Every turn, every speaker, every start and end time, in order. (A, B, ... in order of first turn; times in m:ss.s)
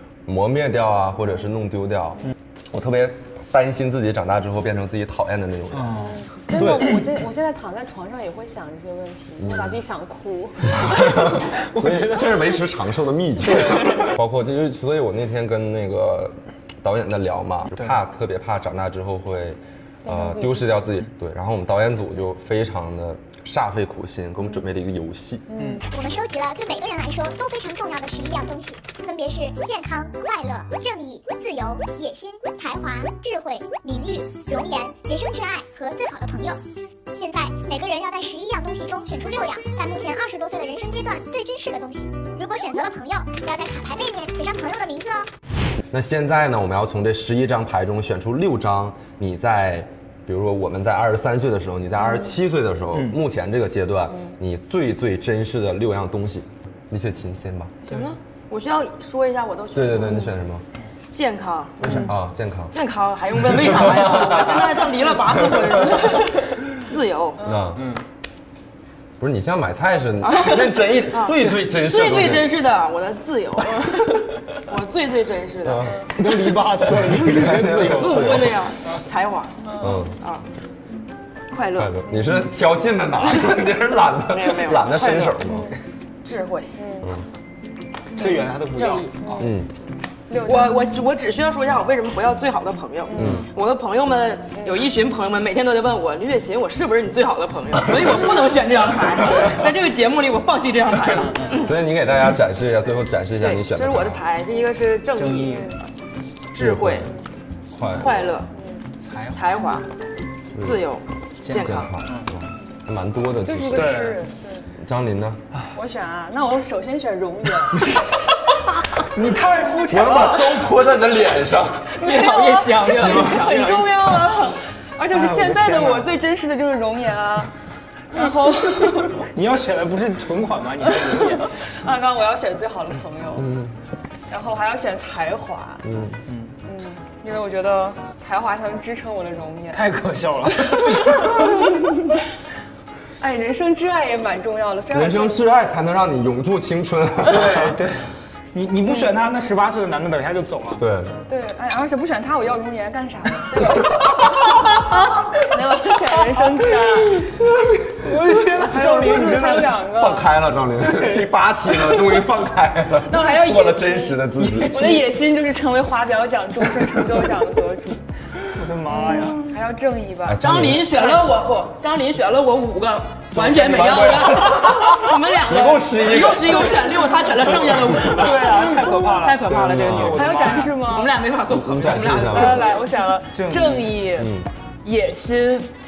0:00.2-0:07.0 A
0:05.7-0:06.2 B
0:06.3-0:11.2 C
0:09.4-0:09.8 A
0:10.7-0:25.5 A
0:11.0-0:12.6 B
0:13.5-0:14.0 B
0:20.0-0:20.7 C
0:25.5-0:25.8 C
0:25.6-0:25.8 B
0:25.8-0:36.6 D
0:37.1-0:45.3 D
0:45.9-0:57.7 A
0:57.8-1:00.3 E
0:59.7-1:00.6 A
1:01.1-1:02.1 E
1:01.8-1:02.7 A
1:02.7-1:07.4 E
1:03.5-1:04.7 A
1:05.4-1:05.6 A
1:07.4-1:07.9 A
1:07.7-1:08.0 B
1:09.2-1:12.6 A
1:10.2-1:16.0 E
1:15.6-1:18.7 A
1:16.1-1:18.3 B
1:17.4-1:20.4 E
1:19.8-1:20.2 A
1:21.5-1:22.0 E
1:21.8-1:25.7 A
1:24.3-1:25.4 E
1:26.2-1:26.8 E
1:26.8-1:27.1 C
1:28.2-1:29.5 B
1:28.2-1:29.1 E
1:29.4-1:29.7 A
1:30.3-1:30.8 C
1:30.3-1:41.7 E
1:33.1-1:33.4 C
1:33.2-1:33.5 A
1:41.3-1:41.5 B
1:41.6-1:44.2 A
1:43.4-1:45.9 E
1:45.1-1:45.7 B
1:46.5-1:47.1 E
1:46.6-1:47.1 A
1:47.7-1:48.2 A
1:47.9-1:48.5 E
1:49.0-1:49.4 B
1:49.3-1:49.9 E
1:50.5-1:50.8 A
1:50.5-1:51.9 E
1:51.4-1:52.3 B
1:51.5-1:54.2 A
1:53.4-1:54.7 C
1:53.7-1:54.2 B
1:54.8-1:55.4 A
1:55.7-1:57.8 C
1:57.8-1:58.1 B
1:58.9-2:00.7 B
1:59.8-2:02.0 A
2:02.0-2:04.1 E
2:02.0-2:07.5 C
2:05.1-2:06.1 B
2:08.1-2:09.3 C
2:09.0-2:11.5 B
2:11.6-2:13.5 C
2:13.4-2:13.8 A
2:14.3-2:15.8 C
2:15.8-2:16.2 A
2:16.3-2:16.5 B
2:16.6-2:19.8 C
2:19.7-2:21.5 B
2:20.7-2:21.5 C
2:23.2-2:25.5 C
2:24.9-2:27.8 A
2:27.2-2:30.8 B
2:30.8-2:31.2 A
2:31.3-2:34.8 C
2:35.4-2:37.3 C
2:37.2-2:38.2 A
2:37.9-2:39.7 B
2:38.6-2:40.4 C
2:39.8-2:45.0 A
2:43.0-2:48.0 C
2:44.4-2:45.0 B
2:48.5-2:49.4 B
2:48.9-2:50.4 C
2:50.2-2:51.0 A
2:50.4-3:02.9 E
2:53.3-2:58.3 A
2:58.0-3:00.8 B
2:59.4-3:00.2 A
3:00.1-3:01.1 C
3:01.5-3:02.7 A
3:02.1-3:04.3 C
3:03.3-3:04.0 B
3:04.2-3:04.5 A
3:04.8-3:05.7 C